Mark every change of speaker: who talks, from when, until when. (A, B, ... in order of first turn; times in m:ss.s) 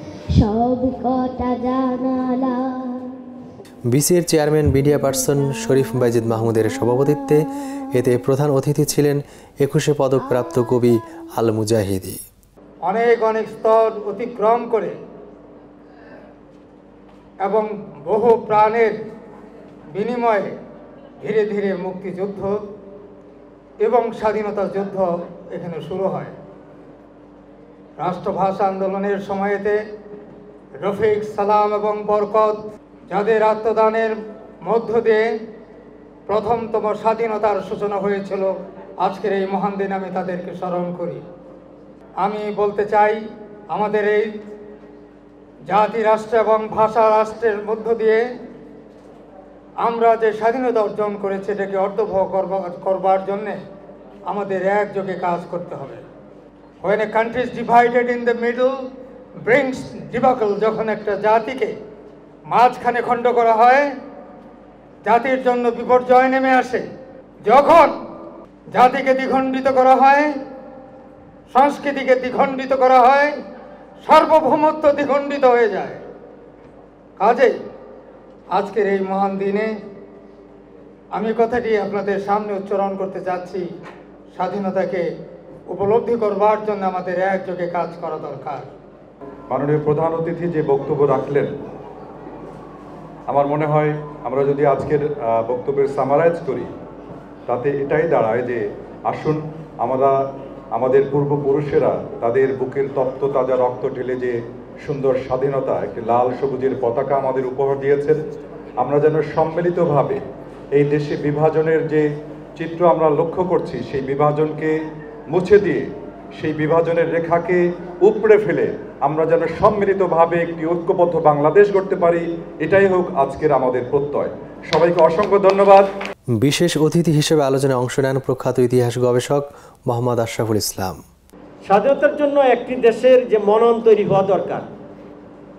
0:00.4-0:03.2 A
0:03.9-0:12.2 B
0:12.8-0:14.9 C
0:17.4-0:19.0 C
0:19.9-0:20.5 C
0:21.2-0:22.6 C
0:23.8-0:26.3 C
0:28.0-0:29.8 C
0:30.8-0:32.6 C
0:33.1-0:35.3 C
0:36.3-0:41.2 C
0:42.2-0:44.3 C
0:45.7-0:48.2 C
0:49.8-0:53.6 C
0:54.3-0:56.0 C
0:56.8-0:58.7 C
0:59.4-1:01.7 C
1:02.5-1:03.9 C
1:05.0-1:06.8 C
1:07.4-1:07.9 C
1:08.7-1:10.3 C
1:11.5-1:13.3 C
1:14.0-1:16.0 C
1:17.2-1:17.6 C
1:18.5-1:19.7 C
1:21.1-1:23.7 C
1:24.3-1:25.1 C
1:25.7-1:28.7 C
1:29.5-1:31.5 D
1:33.3-1:36.7 D
1:37.5-1:40.1 D
1:40.7-1:48.2 D
1:48.8-1:50.2 D
1:50.7-1:52.1 D
1:52.6-1:54.8 D
1:55.3-2:05.9 D
2:06.4-2:11.0 B
2:11.6-2:14.7 E